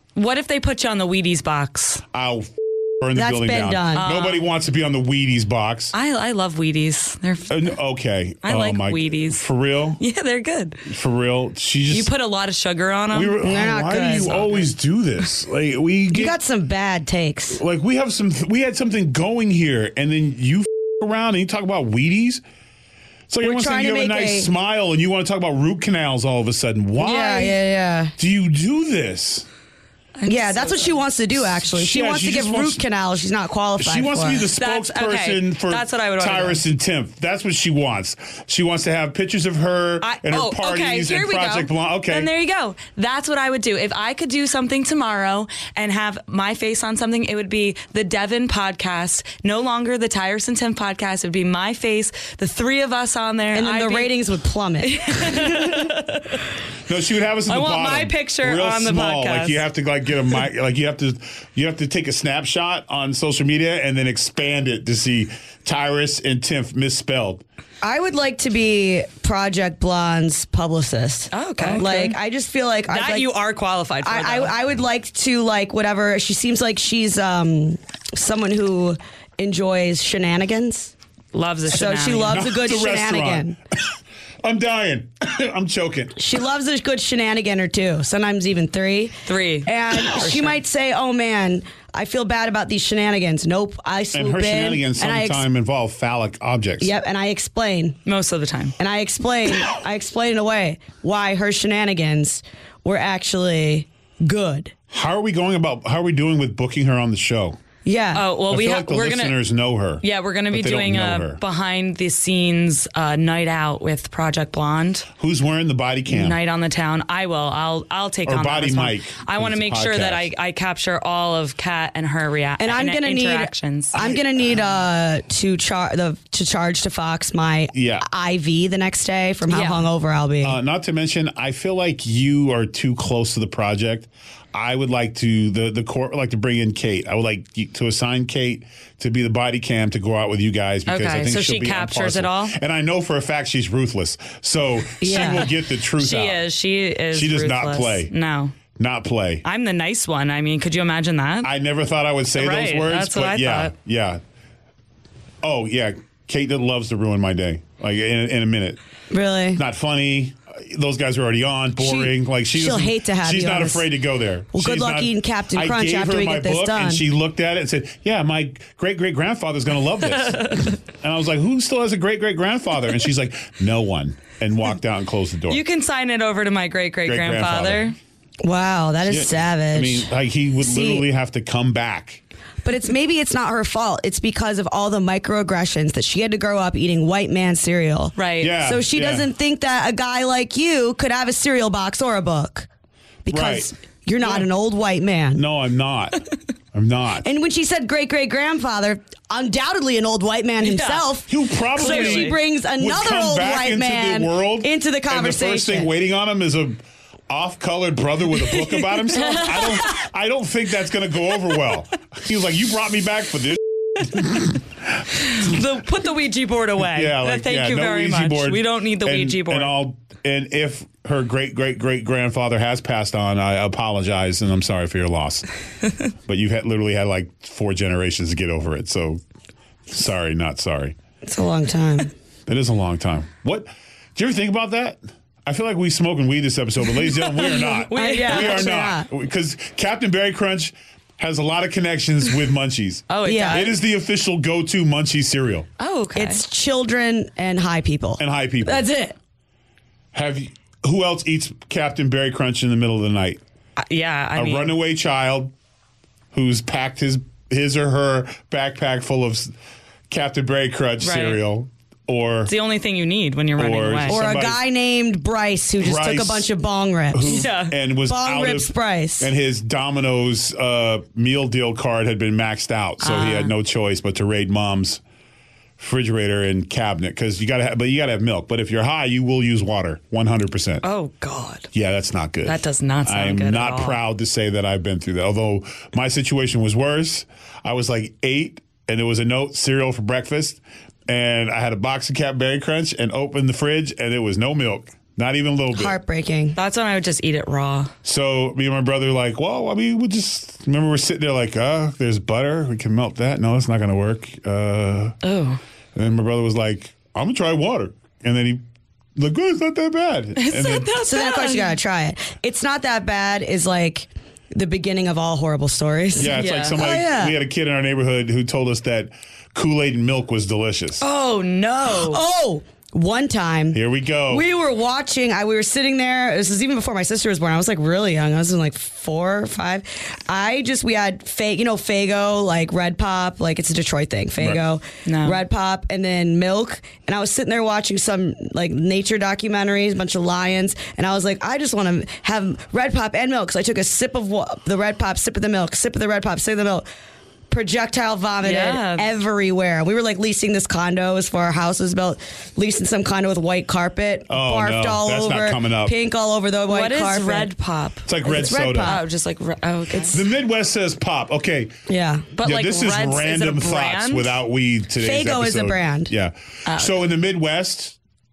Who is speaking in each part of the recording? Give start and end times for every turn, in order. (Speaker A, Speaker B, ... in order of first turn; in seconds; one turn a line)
Speaker A: 0.1-2.0
Speaker B: 2.1-5.9
Speaker C: 3.1-4.1
Speaker A: 3.9-4.5
Speaker A: 5.9-7.7
Speaker B: 7.5-10.0
Speaker A: 8.4-9.5
Speaker A: 10.0-10.8
Speaker B: 10.8-12.1
Speaker A: 11.9-13.3
Speaker B: 13.1-16.4
Speaker C: 13.4-14.6
Speaker A: 14.2-14.4
Speaker C: 16.1-17.6
Speaker B: 17.6-22.4
Speaker B: 23.3-27.6
Speaker C: 23.4-24.5
Speaker C: 27.0-28.1
Speaker B: 28.2-29.5
Speaker A: 30.2-31.0
Speaker C: 30.3-34.5
Speaker B: 31.4-32.8
Speaker B: 33.8-42.3
Speaker A: 34.6-36.6
Speaker A: 40.0-54.2
Speaker C: 53.5-55.7
Speaker A: 54.8-56.5
Speaker B: 56.9-67.4
Speaker A: 57.5-59.6
Speaker C: 67.8-73.3
Speaker A: 71.3-72.2
Speaker B: 71.6-71.9
Speaker A: 72.9-74.5
Speaker C: 74.0-80.9
Speaker A: 81.3-82.4
Speaker C: 81.7-83.5
Speaker B: 82.3-83.5
Speaker B: 84.4-86.2
Speaker C: 86.2-95.4
Speaker A: 89.2-89.7
Speaker B: 90.1-90.5
Speaker B: 94.1-96.9
Speaker C: 96.8-98.0
Speaker A: 98.0-98.8
Speaker C: 98.8-104.7
Speaker B: 104.9-107.6
Speaker C: 107.8-108.3
Speaker A: 108.1-109.4
Speaker B: 108.5-111.4
Speaker A: 110.0-115.1
Speaker B: 115.2-116.4
Speaker A: 116.1-124.0
Speaker B: 118.2-120.3
Speaker C: 122.6-130.6
Speaker B: 124.0-124.5
Speaker B: 127.7-128.1
Speaker A: 129.5-129.9
Speaker B: 130.4-146.4
Speaker A: 140.9-142.5
Speaker C: 145.0-145.4
Speaker A: 145.1-148.6
Speaker B: 147.1-148.1
Speaker B: 148.8-149.4
Speaker A: 149.4-151.5
Speaker B: 151.4-154.2
Speaker A: 152.4-153.7
Speaker B: 155.4-158.8
Speaker C: 159.1-159.6
Speaker B: 159.5-175.6
Speaker C: 161.8-163.8
Speaker C: 164.5-167.0
Speaker A: 170.2-170.7
Speaker A: 175.5-178.0
Speaker B: 177.1-177.9
Speaker C: 178.4-180.1
Speaker B: 179.0-182.2
Speaker C: 180.6-181.0
Speaker C: 182.6-192.7
Speaker A: 188.2-188.6
Speaker B: 188.4-189.3
Speaker C: 193.2-195.4
Speaker B: 193.3-194.5
Speaker B: 195.3-196.2
Speaker B: 196.7-197.3
Speaker C: 197.2-205.9
Speaker A: 200.6-201.1
Speaker B: 201.3-215.6
Speaker A: 201.8-202.4
Speaker A: 208.5-210.1
Speaker A: 214.1-214.4
Speaker A: 215.1-219.7
Speaker B: 216.8-225.4
Speaker B: 226.2-229.2
Speaker B: 229.9-230.9
Speaker C: 231.2-232.1
Speaker B: 232.5-245.7
Speaker A: 237.5-238.7
Speaker C: 237.9-239.1
Speaker A: 243.1-243.8
Speaker C: 243.2-243.7
Speaker A: 245.8-246.4
Speaker C: 246.1-249.2
Speaker B: 248.2-248.9
Speaker B: 250.1-253.4
Speaker A: 253.8-254.7
Speaker B: 254.3-255.5
Speaker B: 256.3-259.5
Speaker B: 260.1-262.5
Speaker A: 261.0-261.4
Speaker A: 262.5-264.2
Speaker B: 263.6-264.6
Speaker C: 264.1-267.5
Speaker B: 265.8-266.5
Speaker B: 267.1-275.0
Speaker A: 267.2-267.8
Speaker C: 268.0-269.3
Speaker A: 273.0-273.5
Speaker B: 275.8-280.8
Speaker A: 280.8-281.7
Speaker B: 281.7-295.9
Speaker A: 282.4-284.0
Speaker C: 295.7-296.6
Speaker A: 296.5-297.9
Speaker B: 298.0-305.2
Speaker A: 305.2-305.6
Speaker B: 305.9-308.6
Speaker B: 309.1-311.0
Speaker A: 310.4-311.8
Speaker C: 311.0-317.4
Speaker B: 316.1-321.0
Speaker A: 316.2-316.8
Speaker A: 321.0-322.2
Speaker C: 321.8-323.8
Speaker B: 323.7-324.4
Speaker C: 324.3-346.8
Speaker B: 334.4-334.6
Speaker A: 335.1-335.4
Speaker C: 347.5-357.5
Speaker A: 348.4-349.1
Speaker B: 354.3-355.9
Speaker A: 356.7-358.1
Speaker B: 358.1-359.0
Speaker C: 358.2-359.0
Speaker A: 358.8-360.2
Speaker B: 360.0-361.8
Speaker C: 361.9-362.3
Speaker A: 362.4-364.4
Speaker B: 362.4-368.0
Speaker C: 365.0-366.1
Speaker A: 366.6-366.9